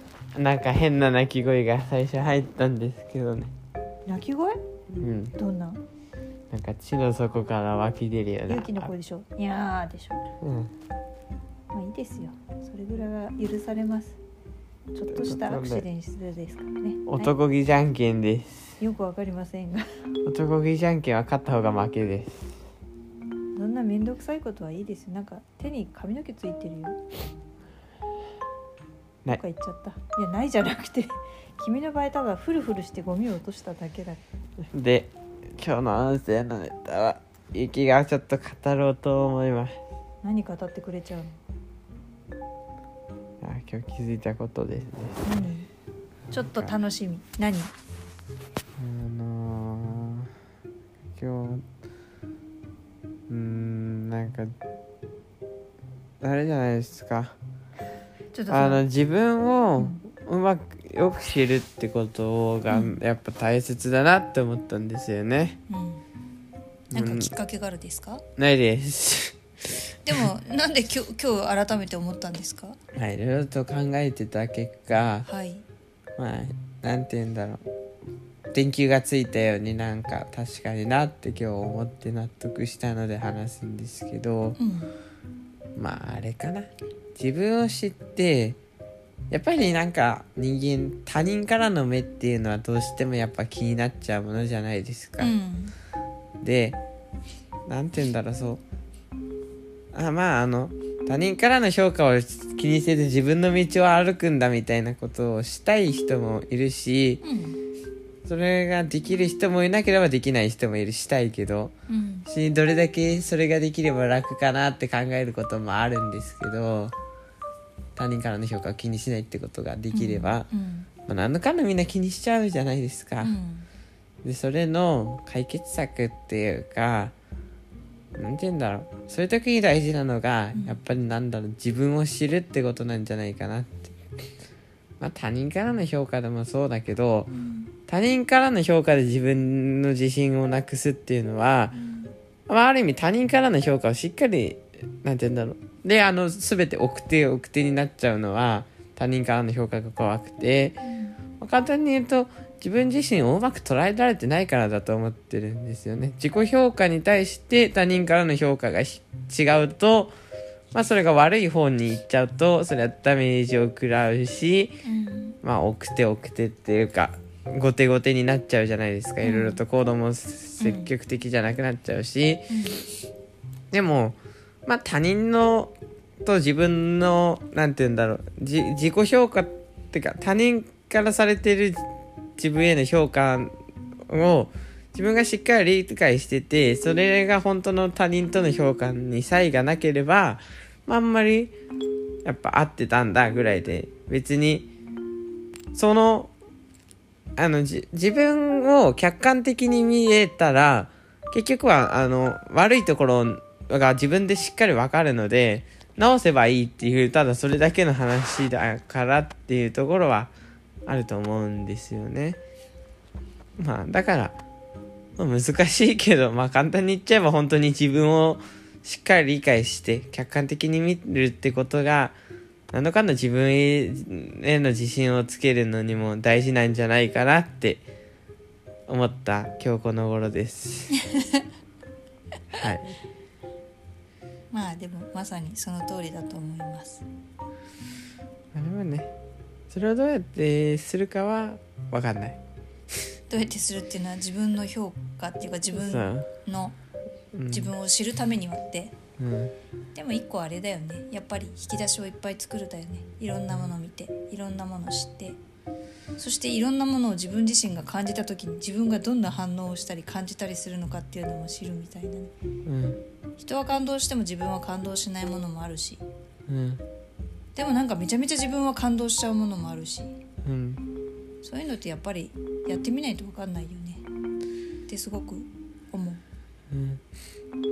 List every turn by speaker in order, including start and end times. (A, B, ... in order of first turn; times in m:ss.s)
0:00.4-0:03.5 A
0:04.1-0:04.6 B
0:05.0-0:05.4 A
0:05.4-0:05.8 B
0:06.5-0:08.9 A
0:08.5-0:10.3 B
0:10.4-0:10.7 A
0:11.7-0:14.2 B
0:14.9-0:17.4 B
0:15.1-0:15.9 A
0:17.1-0:18.8 A
0:18.8-0:19.9 B
0:20.3-0:22.6 A
0:23.6-0:27.0 B
0:29.3-0:34.2 B
0:34.7-0:39.8 A
0:40.2-0:41.4 B
0:43.4-0:45.5 A
0:45.2-0:45.7 B
0:46.3-0:46.7 A
0:46.3-0:47.7 B
0:48.8-0:50.3 A
0:51.2-0:51.6 A
0:53.3-0:54.5 A
0:56.2-0:57.4 A
0:58.3-0:58.8 B
0:58.5-1:05.6 A
0:59.8-1:00.0 B
1:02.7-1:03.0 B
1:05.7-1:06.0 B
1:06.9-1:08.2 B
1:06.9-1:07.3 A
1:08.4-1:09.4 A
1:10.1-1:12.8 B
1:12.9-1:15.3 A
1:15.3-1:15.6 B
1:16.2-1:17.6 A
1:18.5-1:24.6 A
1:24.6-1:24.9 B
1:25.8-1:28.6 A
1:29.3-1:35.3 A
1:35.2-1:35.7 B
1:36.4-1:36.8 A
1:37.7-1:38.6 A
1:39.9-1:47.2 A
1:47.2-1:47.6 B
1:48.2-1:51.7 A
1:51.9-1:52.3 B
1:52.3-1:57.0 A
1:58.0-2:00.5 A
1:59.9-2:00.9 B
2:01.1-2:03.3 A
2:03.2-2:03.7 B
2:04.2-2:07.2 A
2:08.2-2:13.9 A
2:10.5-2:10.8 B
2:15.0-2:17.3 A
2:17.3-2:17.7 B
2:17.9-2:21.8 A
2:21.7-2:22.1 B
2:22.5-2:30.8 A
2:30.8-2:31.2 B
2:31.4-2:40.1 A
2:40.7-2:44.8 A
2:44.8-2:45.4 B
2:45.4-2:52.5 A
2:49.2-2:49.6 B
2:50.6-2:50.9 B
2:52.5-2:52.8 B
2:53.7-3:03.5 A
3:04.1-3:11.5 A
3:12.2-3:14.7 A
3:15.7-3:16.3 A
3:17.4-3:30.3 A
3:30.9-3:32.4 A
3:33.6-3:34.4 A
3:35.2-3:42.2 A
3:42.7-3:47.8 A
3:48.9-3:51.0 A
3:51.0-3:51.4 B
3:52.5-3:52.9 A
3:54.5-3:57.0 B
3:58.5-3:59.1 A
3:59.7-4:02.4 A
4:03.3-4:06.8 B
4:05.7-4:06.3 A
4:07.3-4:07.7 A
4:07.5-4:09.0 B
4:09.2-4:09.5 A
4:10.0-4:15.4 B
4:13.5-4:13.7 A
4:16.2-4:22.3 B
4:22.7-4:23.0 A
4:23.4-4:26.0 B
4:26.5-4:26.8 A
4:27.6-4:30.2 B
4:30.4-4:30.8 A
4:31.4-4:34.0 B
4:34.9-4:36.2 B
4:36.7-4:37.0 A